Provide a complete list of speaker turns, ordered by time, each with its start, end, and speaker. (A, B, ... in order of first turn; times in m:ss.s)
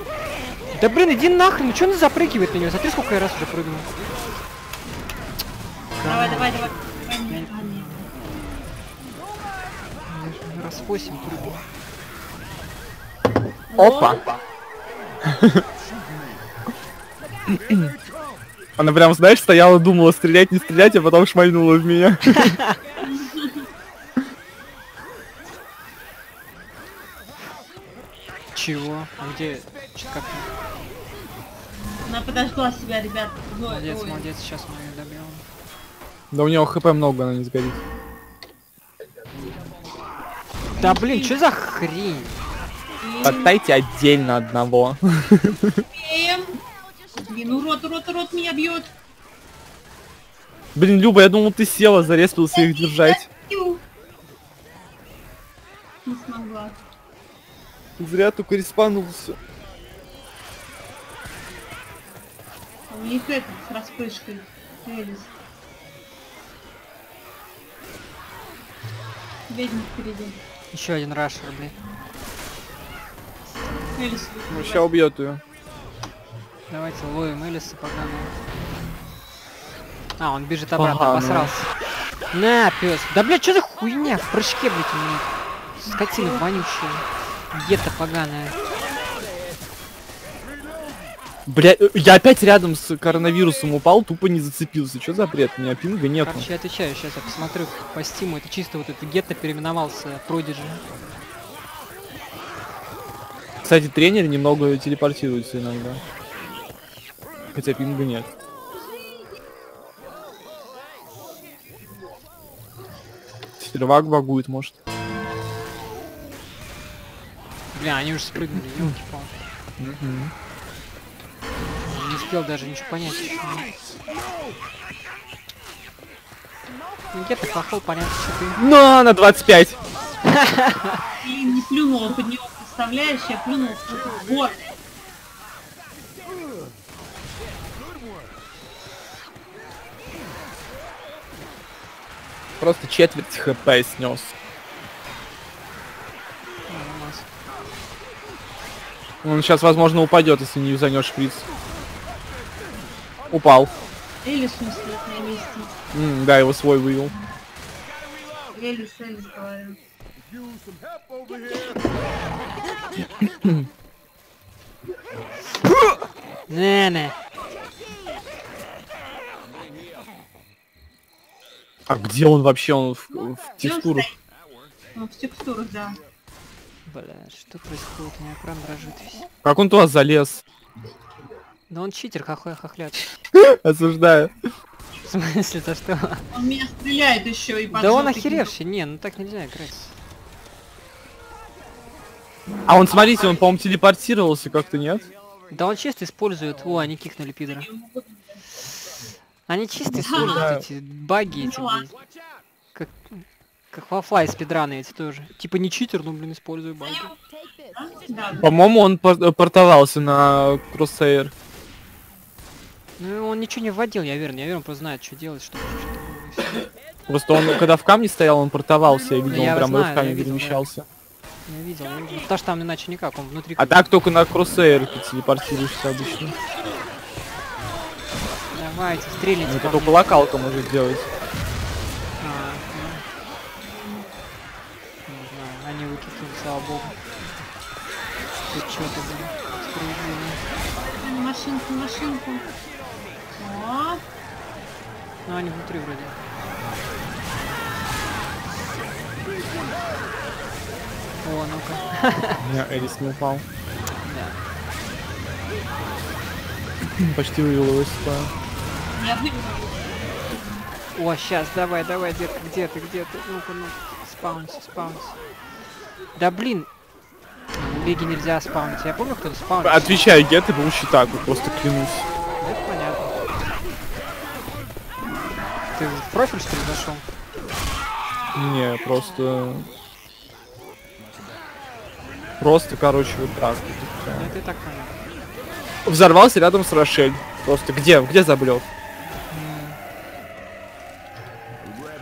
0:00.7-0:03.9 A
0:06.0-0:06.6 A
0:06.1-0:08.0 B
0:07.3-0:07.9 A
0:10.0-0:11.6 A
0:13.7-0:14.2 B
0:13.8-0:14.4 C
0:15.2-0:15.6 C
0:17.5-0:17.9 C
0:18.8-0:22.5 C
0:23.0-0:23.6 B
0:28.5-0:30.5 A
0:32.0-0:34.3 B
0:33.7-0:35.4 A
0:36.3-0:37.8 C
0:40.7-0:41.4 B
0:40.8-0:42.4 A
0:43.0-0:43.5 B
0:43.2-0:45.8 C
0:45.9-0:46.6 B
0:47.2-0:48.9 B
0:50.8-0:53.2 C
0:52.6-0:53.8 B
0:56.0-0:56.8 B
0:58.0-0:59.4 C
1:02.9-1:05.3 B
1:09.5-1:10.4 B
1:10.7-1:11.7 A
1:13.9-1:14.9 B
1:14.5-1:15.4 C
1:16.7-1:18.3 A
1:20.2-1:21.7 A
1:20.8-1:21.5 C
1:22.3-1:28.6 A
1:25.9-1:26.5 B
1:31.4-1:36.4 C
1:36.2-1:40.8 A
1:43.6-1:46.0 C
1:47.5-1:48.3 C
1:53.6-1:54.7 C
1:57.7-1:59.4 A
1:59.8-2:00.3 C
2:01.8-2:03.7 A
2:07.1-2:08.6 A
2:08.6-2:09.8 C
2:10.3-2:11.0 A
2:11.2-2:14.7 B
2:22.6-2:24.3 C
2:26.7-2:27.2 A
2:29.2-2:31.4 C
2:33.3-2:33.7 C
2:34.2-2:35.8 B
2:35.9-2:37.1 C
2:38.5-2:39.8 B
2:46.5-2:47.2 A
2:51.9-2:54.1 C
2:53.6-2:54.2 B
2:54.9-2:56.0 B
2:56.8-2:59.3 A
2:59.4-3:00.4 C
3:01.7-3:03.1 A
3:03.3-3:04.3 C
3:05.0-3:06.3 A
3:06.3-3:08.5 B
3:07.7-3:09.9 A
3:12.7-3:15.1 C
3:15.5-3:17.7 A
3:17.5-3:18.4 B
3:19.5-3:21.9 A
3:19.9-3:20.6 C
3:20.1-3:20.5 B
3:21.4-3:21.9 B
3:22.7-3:27.1 A
3:26.8-3:27.1 B
3:27.7-3:28.5 B
3:28.4-3:31.3 C
3:33.0-3:36.6 A
3:37.1-3:40.8 C
3:39.3-3:40.7 A
3:41.4-3:43.8 A
3:43.6-3:46.4 C
3:48.5-3:50.1 A
3:49.5-3:51.1 C
3:52.2-3:53.0 A
3:53.6-3:54.1 B
3:55.1-3:57.0 A
3:58.5-4:00.4 A
4:00.8-4:02.5 B
4:03.3-4:04.0 B
4:05.2-4:06.2 A
4:11.2-4:12.4 A
4:12.4-4:13.4 C
4:14.0-4:14.4 A
4:17.0-4:18.3 C
4:19.0-4:20.7 B
4:20.9-4:25.2 A
4:26.2-4:26.7 A
4:27.6-4:30.0 A
4:29.6-4:32.1 C
4:32.4-4:33.2 A
4:35.7-4:37.1 A
4:38.4-4:39.7 C
4:42.4-4:44.3 C
4:44.1-4:45.0 A
4:45.8-4:48.6 C
4:49.3-4:49.8 A